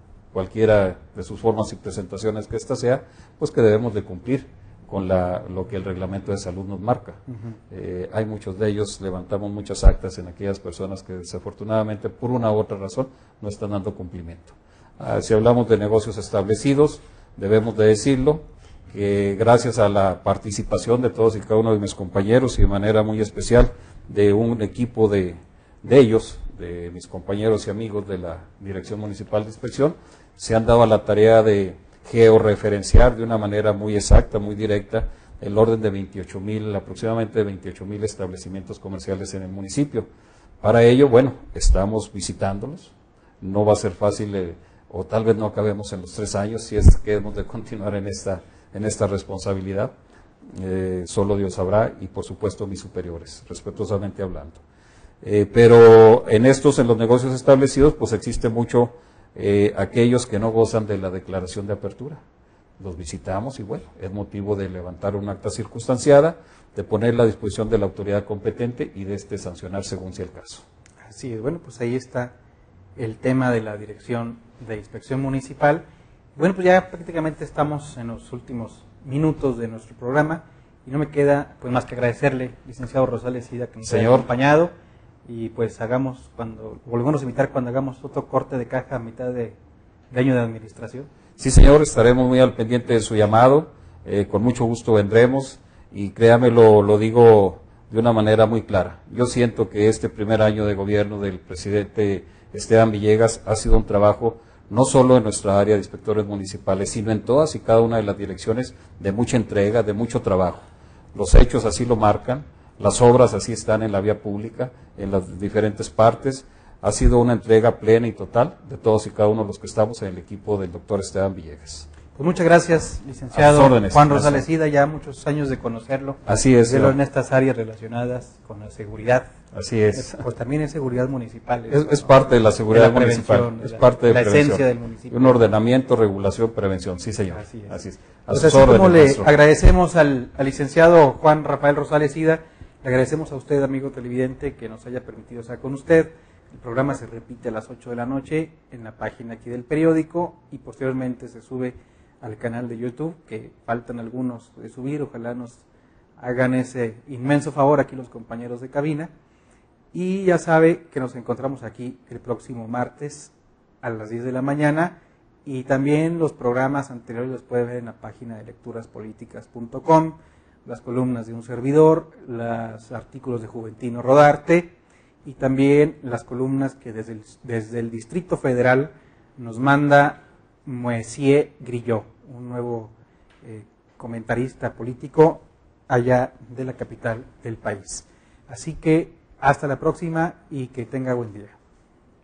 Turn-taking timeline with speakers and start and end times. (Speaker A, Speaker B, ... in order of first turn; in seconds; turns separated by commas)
Speaker A: 0.3-40.1, Speaker A: 40.6-49.9, Speaker A: 50.5-54.6, Speaker A: 55.2-62.2, Speaker A: 62.8-70.6, Speaker B: 71.0-72.4, Speaker B: 73.0-84.7, Speaker A: 83.8-84.3, Speaker B: 85.3-89.6, Speaker B: 90.1-91.1, Speaker A: 91.4-121.9, Speaker B: 122.2-129.3, Speaker A: 123.3-124.4, Speaker A: 126.3-127.0, Speaker A: 129.5-130.2, Speaker B: 129.9-132.2, Speaker A: 131.7-139.3, Speaker B: 132.7-135.4, Speaker B: 137.3-137.8, Speaker B: 138.3-155.6, Speaker B: 156.2-159.1, Speaker B: 159.9-191.6